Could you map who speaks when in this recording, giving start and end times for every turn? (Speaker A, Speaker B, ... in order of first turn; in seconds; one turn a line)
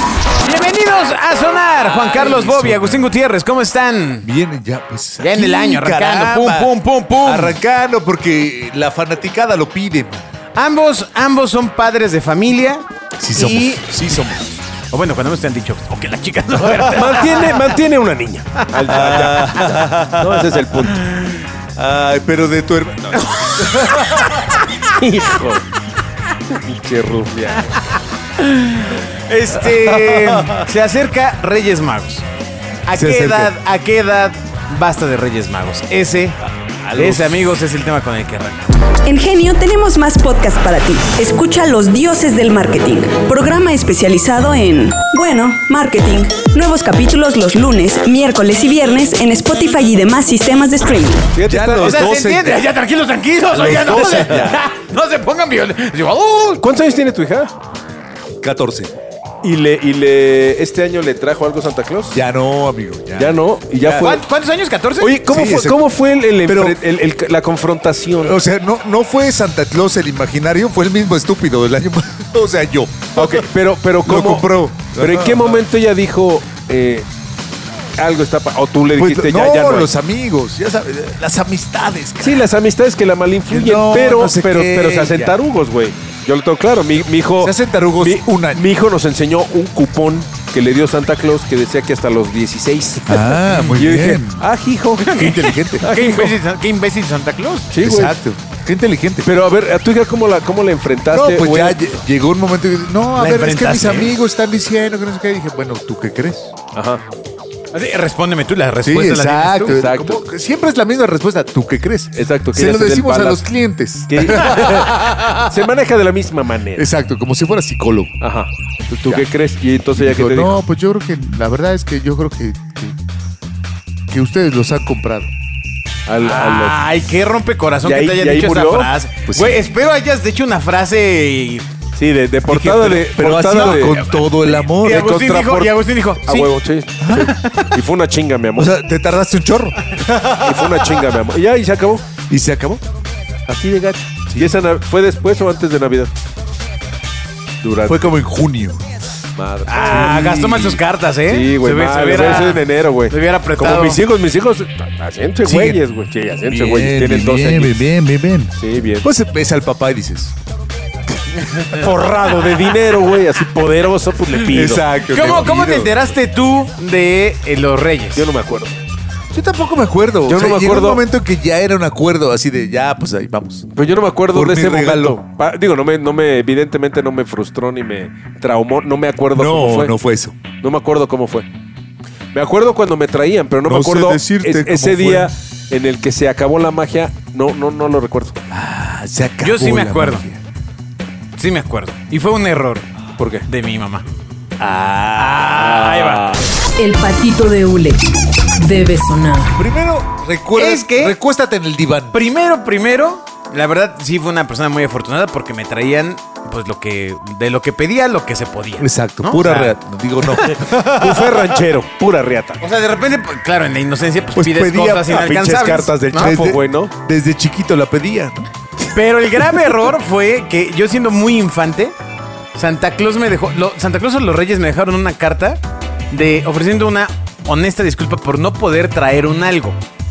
Speaker A: 0.4-4.3
Speaker B: 2.0-3.0
Speaker B: 4.2-10.2
Speaker A: 5.2-7.6
Speaker A: 10.5-14.0
Speaker B: 13.2-14.6
Speaker A: 14.9-17.7
Speaker C: 16.8-21.0
Speaker B: 18.8-20.6
Speaker A: 21.1-21.4
Speaker B: 21.8-24.3
Speaker C: 24.8-25.6
Speaker C: 26.5-27.8
Speaker A: 28.4-32.2
Speaker B: 29.6-30.7
Speaker A: 32.8-36.4
Speaker B: 32.9-33.5
Speaker C: 36.9-37.2
Speaker A: 36.9-38.7
Speaker D: 39.0-51.3
Speaker C: 51.3-52.1
Speaker B: 51.4-52.7
Speaker A: 51.8-56.6
Speaker B: 53.5-54.6
Speaker C: 56.6-57.5
Speaker B: 58.4-58.9
Speaker C: 59.4-62.2
Speaker B: 62.1-64.2
Speaker C: 63.1-64.2
Speaker A: 64.0-65.2
Speaker C: 65.0-68.4
Speaker B: 65.2-65.9
Speaker B: 66.4-66.8
Speaker B: 68.2-73.5
Speaker C: 73.2-77.0
Speaker B: 74.0-75.6
Speaker C: 78.0-79.9
Speaker B: 78.9-82.5
Speaker C: 82.2-95.3
Speaker B: 83.5-85.3
Speaker B: 87.4-88.6
Speaker B: 93.1-94.5
Speaker A: 95.0-97.7
Speaker B: 95.1-95.8
Speaker C: 95.8-96.4
Speaker C: 97.7-98.2
Speaker B: 97.8-99.3
Speaker C: 99.2-101.8
Speaker B: 101.1-106.5
Speaker A: 103.2-104.2
Speaker C: 106.7-107.0
Speaker A: 107.7-109.8
Speaker B: 108.8-115.3
Speaker C: 109.7-110.2
Speaker C: 112.1-113.5
Speaker C: 114.1-116.9
Speaker A: 114.6-115.3
Speaker B: 116.8-118.1
Speaker C: 118.2-118.5
Speaker B: 118.9-119.3
Speaker C: 119.0-120.6
Speaker B: 120.0-122.9
Speaker B: 124.1-125.3
Speaker C: 126.0-126.8
Speaker A: 126.2-131.7
Speaker C: 127.8-128.9
Speaker B: 129.3-129.6
Speaker C: 131.9-134.1
Speaker A: 132.5-136.5
Speaker B: 132.6-135.1
Speaker C: 134.7-138.7
Speaker B: 137.0-137.3
Speaker A: 137.1-137.7
Speaker B: 138.5-140.3
Speaker C: 140.3-142.0
Speaker B: 142.3-142.8
Speaker C: 143.5-146.1
Speaker C: 147.6-148.1
Speaker B: 147.8-148.8
Speaker C: 149.3-150.1
Speaker A: 149.7-154.0
Speaker B: 149.8-150.8
Speaker C: 151.3-157.9
Speaker B: 155.4-155.8
Speaker B: 156.4-160.3
Speaker C: 158.6-159.1
Speaker C: 161.4-165.5
Speaker B: 164.5-166.0
Speaker A: 165.1-168.2
Speaker C: 168.1-168.7
Speaker B: 169.3-173.7
Speaker C: 170.2-171.0
Speaker C: 173.7-179.9
Speaker B: 174.3-175.2
Speaker B: 179.3-180.4
Speaker C: 180.6-181.5
Speaker C: 182.3-188.3
Speaker B: 183.6-185.3
Speaker B: 188.5-190.4
Speaker A: 189.4-190.2
Speaker A: 191.3-192.9
Speaker C: 193.2-193.4
Speaker A: 193.4-194.1
Speaker B: 194.6-196.3
Speaker A: 195.2-196.4
Speaker C: 195.7-196.4
Speaker E: 196.8-199.5
Speaker B: 199.5-202.2
Speaker A: 200.5-201.2
Speaker A: 202.1-209.8
Speaker B: 208.8-211.3
Speaker C: 210.3-212.6
Speaker A: 212.6-216.3
Speaker B: 214.3-215.2
Speaker C: 215.1-216.9
Speaker B: 216.1-218.5
Speaker A: 218.9-221.9
Speaker A: 222.5-229.8